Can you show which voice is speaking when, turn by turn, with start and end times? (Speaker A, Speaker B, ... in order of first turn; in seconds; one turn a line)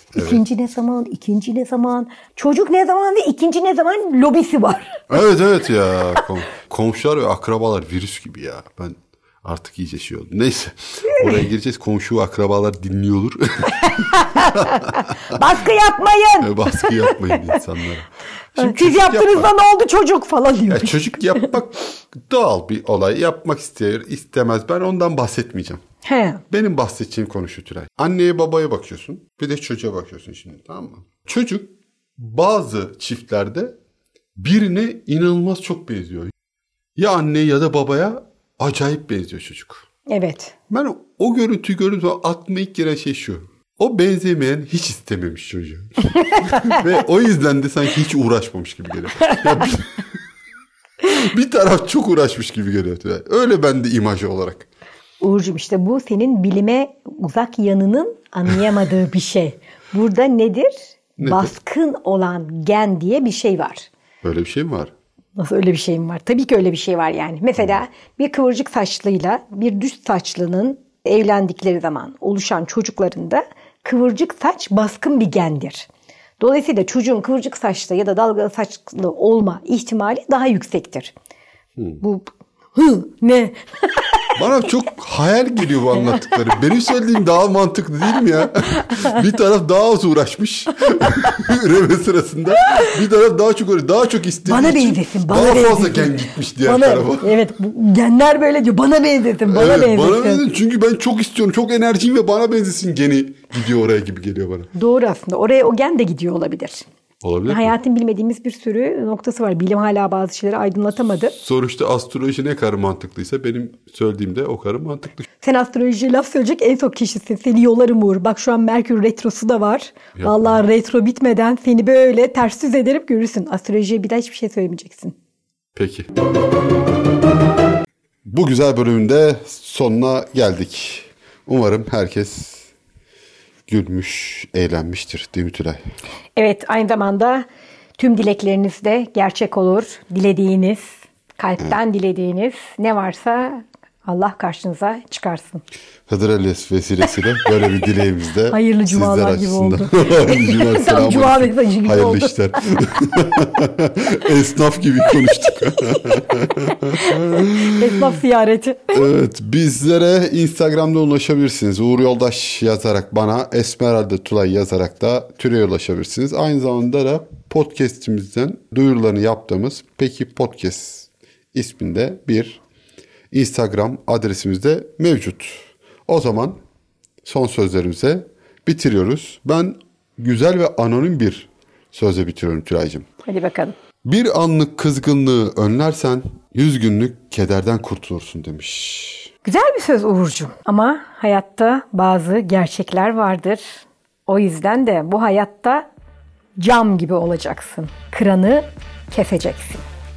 Speaker A: 0.1-0.4
Speaker B: 0.1-5.0
Speaker A: 5.1-14.9
Speaker B: 11.1-11.5
Speaker B: 13.8-17.5
Speaker A: 16.4-19.5
Speaker B: 18.6-21.5
Speaker A: 20.7-25.8
Speaker B: 26.0-26.4
Speaker A: 26.5-33.8
Speaker A: 34.4-36.3
Speaker A: 37.0-39.8
Speaker B: 40.1-40.5
Speaker A: 40.7-50.0
Speaker B: 46.4-46.8
Speaker B: 49.3-49.6
Speaker A: 51.0-54.7
Speaker B: 55.2-63.9
Speaker A: 61.2-61.5
Speaker A: 64.2-64.9
Speaker B: 65.4-75.9
Speaker B: 76.4-81.1
Speaker B: 82.0-84.3
Speaker A: 84.4-97.4
Speaker B: 86.0-86.3
Speaker B: 88.8-89.1
Speaker B: 94.5-100.5
Speaker A: 99.5-104.7
Speaker B: 104.7-106.8
Speaker A: 107.2-107.7
Speaker B: 107.5-111.3
Speaker A: 111.4-115.3
Speaker B: 115.4-125.1
Speaker A: 120.2-120.6
Speaker A: 125.8-126.1
Speaker A: 128.2-132.7
Speaker A: 133.7-135.8
Speaker B: 136.4-137.5
Speaker B: 138.0-145.6
Speaker A: 146.1-158.2
Speaker B: 148.5-152.3
Speaker B: 156.7-159.1
Speaker A: 158.9-172.6
Speaker A: 173.3-176.6
Speaker A: 177.2-183.1
Speaker B: 183.2-183.8
Speaker A: 184.0-189.3
Speaker B: 189.4-195.9
Speaker B: 196.6-199.8